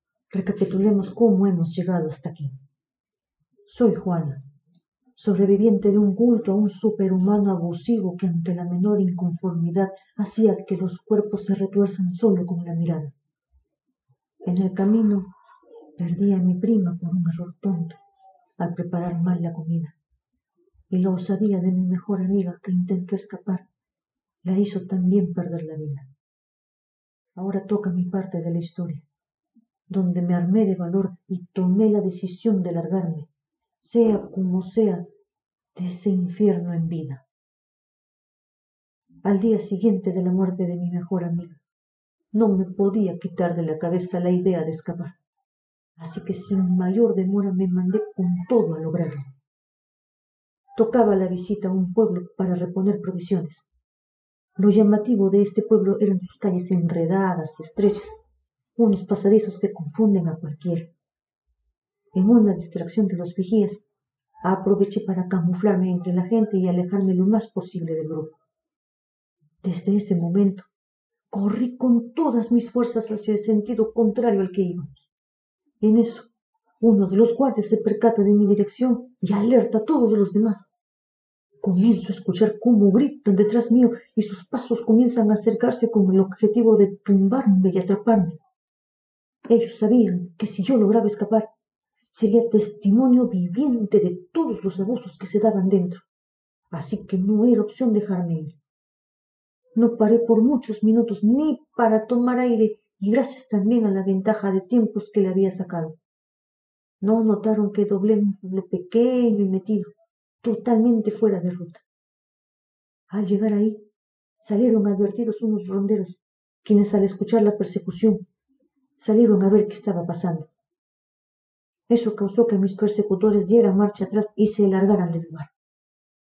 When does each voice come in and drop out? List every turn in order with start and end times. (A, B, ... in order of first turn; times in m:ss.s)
0:00.3-0:02.5 A
0:03.6-0:04.4 A
0:05.2-0:13.1 A
0:14.4-0:15.3 A
0:16.0-0:18.0 A
0:18.6-0:20.0 A
0:20.9-0:23.6 A
0:24.4-0:26.1 A
0:27.4-0:29.1 A
0:29.9-0:35.1 A
0:35.8-0:37.2 A
0:39.2-0:41.6 A
0:42.3-0:45.2 A
0:46.0-0:49.2 A
0:50.8-0:53.7 A
0:54.6-0:58.2 A
0:58.8-1:00.9 A
1:02.1-1:03.8 A
1:04.4-1:08.3 A
1:09.6-1:10.7 A
1:11.3-1:15.1 A
1:15.8-1:16.3 A
1:16.8-1:20.7 A
1:21.6-1:28.4 A
1:29.5-1:31.5 A
1:32.1-1:36.1 A
1:36.7-1:38.6 A
1:39.8-1:46.0 A
1:47.0-1:49.9 A
1:50.4-1:51.8 A
1:53.1-1:53.8 A
1:54.4-1:58.2 A
1:59.0-2:00.5 A
2:01.9-2:05.5 A